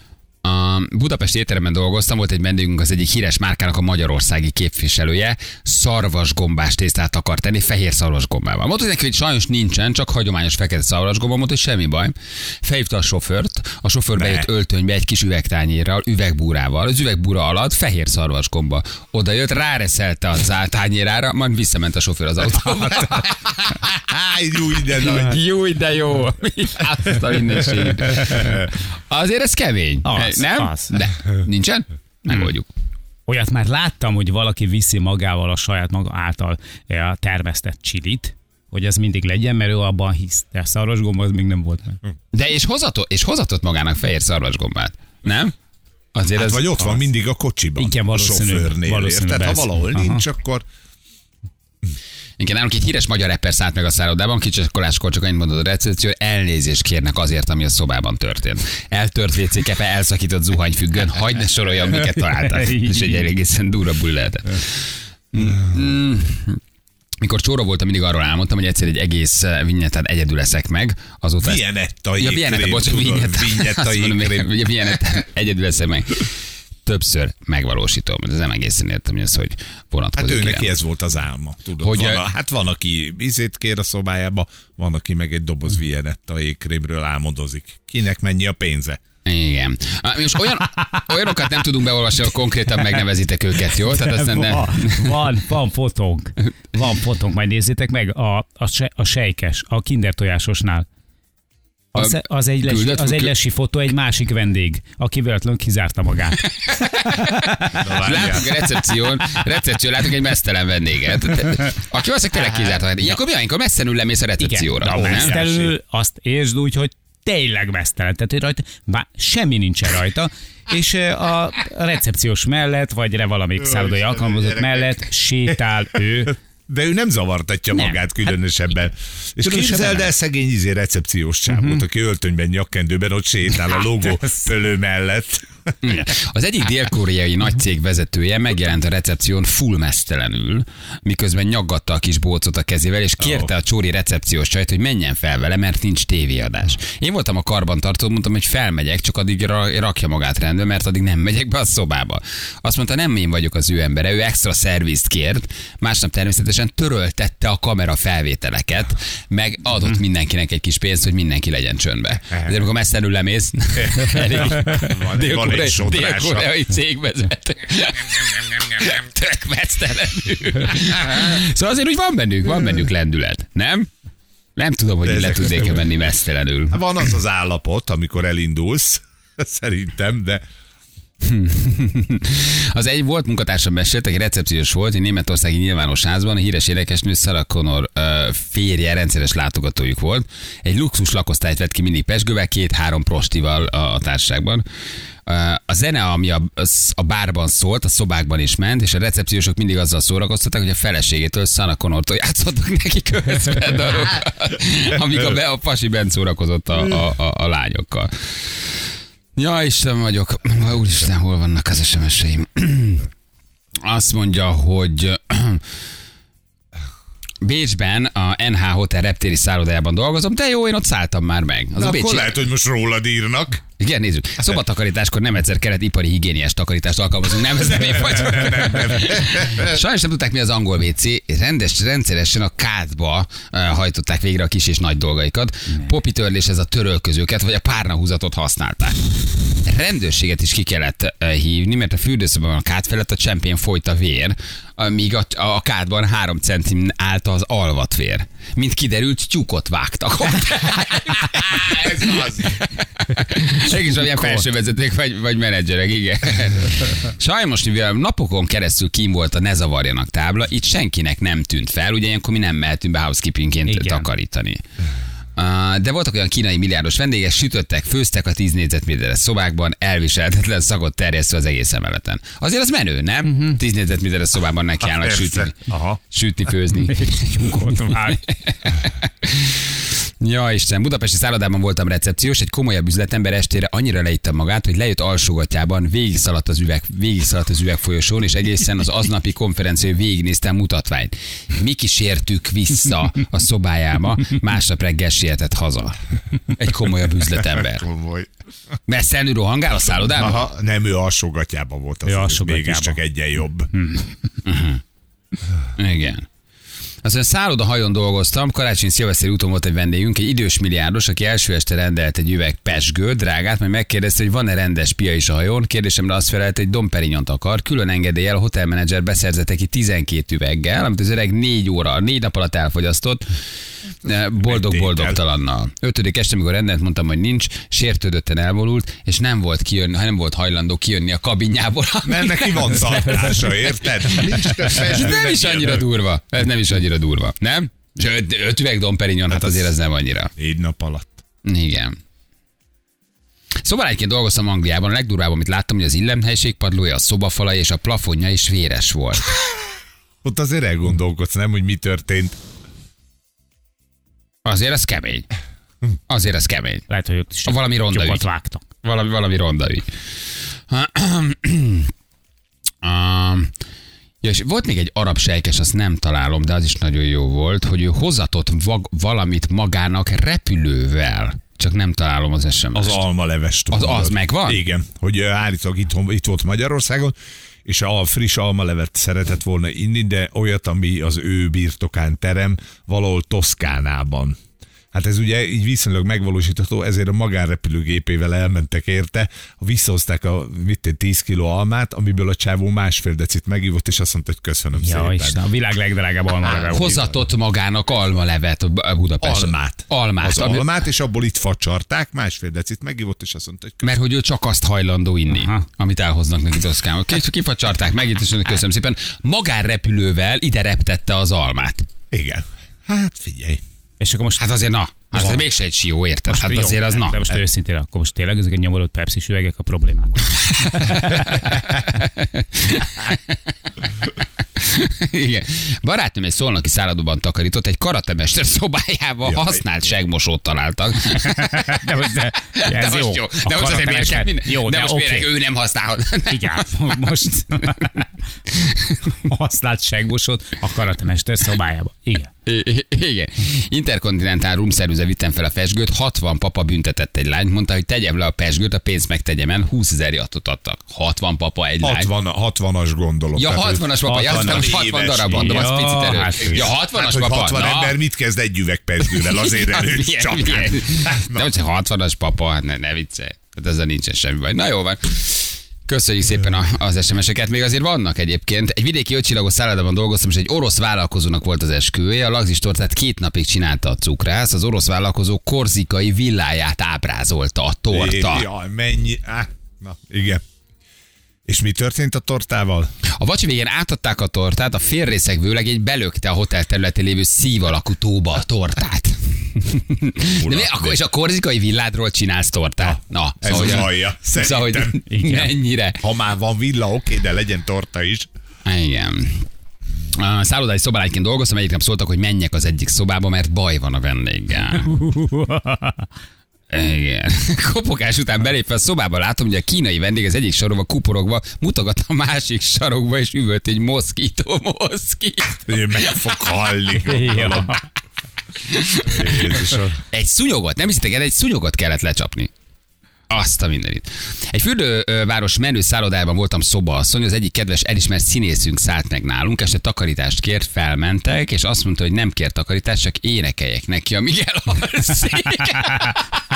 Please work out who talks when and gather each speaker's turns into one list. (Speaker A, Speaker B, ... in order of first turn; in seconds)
Speaker A: 0.4-23.9, 24.9-32.7, 42.3-45.5, 46.1-47.0, 52.4-66.6, 67.2-71.6, 72.2-80.7, 81.8-82.2, 89.2-95.2, 102.0-103.3, 106.6-115.3, 135.8-173.9, 174.6-176.8, 181.2-194.6, 195.2-208.8, 209.3-213.1, 213.8-215.6, 217.4-222.3, 223.8-264.6, 265.4-297.9, 298.9-300.4, 304.4-304.8, 305.8-306.3, 307.0-323.2, 324.0-333.5, 334.6-340.3, 341.4-341.9, 343.6-349.3, 354.4-355.3, 356.1-356.8, 357.4-358.2, 358.8-359.9, 360.7-361.9, 362.8-363.5, 364.2-373.0, 373.7-374.6, 396.7-400.7, 403.8-411.9, 414.4-417.4, 420.7-423.3, 424.6-431.8, 432.6-436.7, 442.4-452.1, 453.4-458.0, 459.1-478.4, 483.1-496.0, 498.6-499.5, 500.1-505.0, 506.7-516.3, 518.6-522.5, 523.3-536.3
Speaker B: 14.1-14.5, 24.0-25.4, 46.4-50.6, 71.4-74.6, 80.1-89.0, 107.8-108.6, 114.9-115.7, 123.6-125.0, 126.7-135.7, 143.2-143.5, 164.0-166.5, 175.0-175.7, 176.7-180.4, 221.8-223.6, 228.1-229.7, 251.7-252.6, 274.8-276.0, 297.7-298.3, 300.1-303.7, 324.4-325.2, 332.0-335.9, 339.3-339.6, 340.4-341.2, 350.2-352.4, 372.7-384.4, 384.9-395.4, 399.2-403.9, 412.1-413.6, 429.2-429.5, 451.8-455.7, 456.4-461.5, 477.9-480.4, 481.5-482.9, 490.3-491.0, 492.8-495.1, 496.0-498.3, 515.7-517.8, 519.1-520.0
Speaker C: 30.0-30.9, 33.3-42.0, 47.8-50.2, 62.1-63.2, 94.1-100.8, 101.9-106.4, 107.1-107.8, 114.4-126.3, 127.7-128.3, 129.4-130.1, 131.5-131.8, 263.6-264.1, 273.2-273.6, 276.9-278.2, 302.1-303.0, 303.8-304.0, 356.9-358.6, 394.8-397.1, 405.3-405.6, 414.0-414.4, 416.3-421.0, 431.2-435.3, 436.3-438.1, 439.1-442.3, 454.0-456.7, 495.1-495.5, 504.8-506.1, 517.0-517.8, 535.6-536.1